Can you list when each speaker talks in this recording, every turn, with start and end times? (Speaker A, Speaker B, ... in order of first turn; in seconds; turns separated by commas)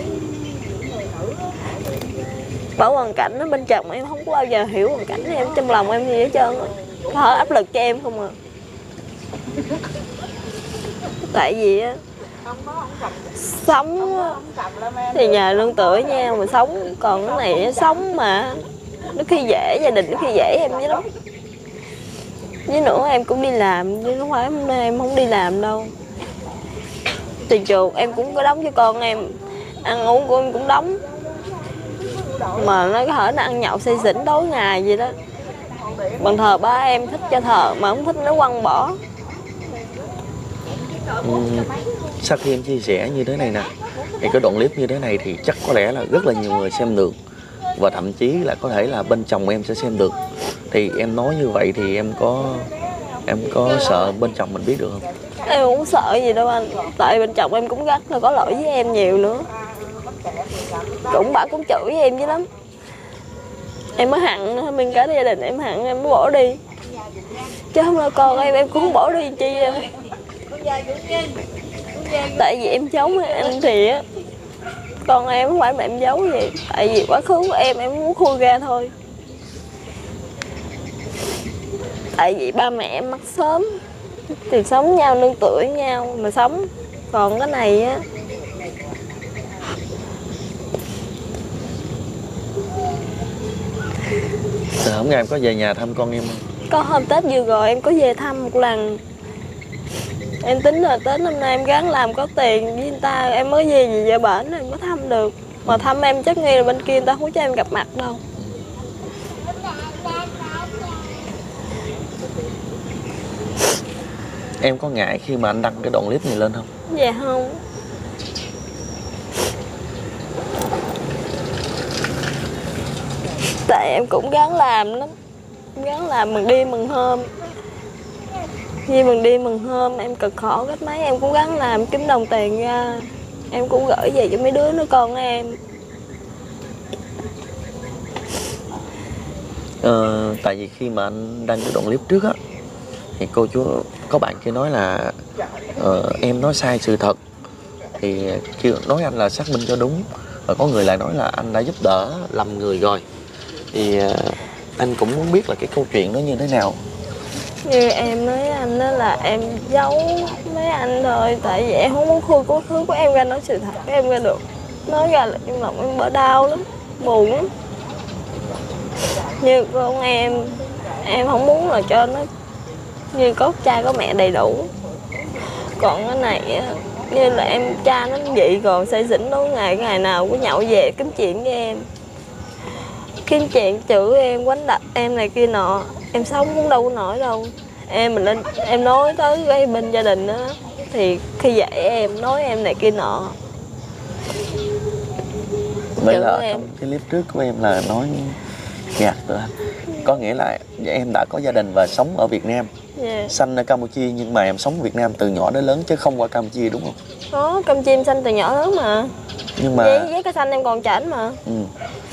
Speaker A: 2.8-8.3, Speaker A: 11.3-12.0, Speaker A: 13.3-14.4, Speaker A: 15.1-21.1, Speaker A: 22.7-25.9, Speaker A: 27.4-31.0, Speaker A: 32.5-35.1, Speaker A: 36.2-39.0, Speaker B: 41.2-47.1, Speaker B: 47.7-50.2, Speaker B: 50.7-52.7, Speaker B: 53.2-55.1, Speaker A: 55.4-59.5, Speaker A: 61.0-62.5, Speaker A: 64.0-66.6, Speaker A: 67.7-69.9, Speaker A: 72.0-74.0, Speaker A: 75.0-78.9, Speaker A: 82.1-83.7, Speaker A: 84.3-88.0, Speaker B: 94.7-96.4, Speaker A: 96.7-99.0, Speaker A: 100.4-108.2, Speaker B: 108.4-108.6, Speaker B: 114.6-116.7, Speaker A: 116.9-117.6, Speaker A: 123.5-125.1, Speaker A: 125.7-127.3, Speaker A: 128.8-135.6, Speaker B: 139.8-142.3, Speaker B: 143.2-145.1, Speaker B: 145.8-147.2, Speaker B: 148.0-153.0, Speaker B: 153.7-156.8, Speaker A: 157.6-167.5, Speaker A: 169.4-172.3, Speaker A: 173.1-174.7, Speaker A: 175.8-181.8, Speaker A: 183.2-193.3, Speaker B: 196.0-202.7, Speaker A: 196.0-196.7, Speaker A: 202.9-203.3, Speaker B: 203.3-207.0, Speaker A: 207.3-209.1, Speaker B: 209.6-210.1, Speaker A: 209.7-211.4, Speaker B: 211.4-211.7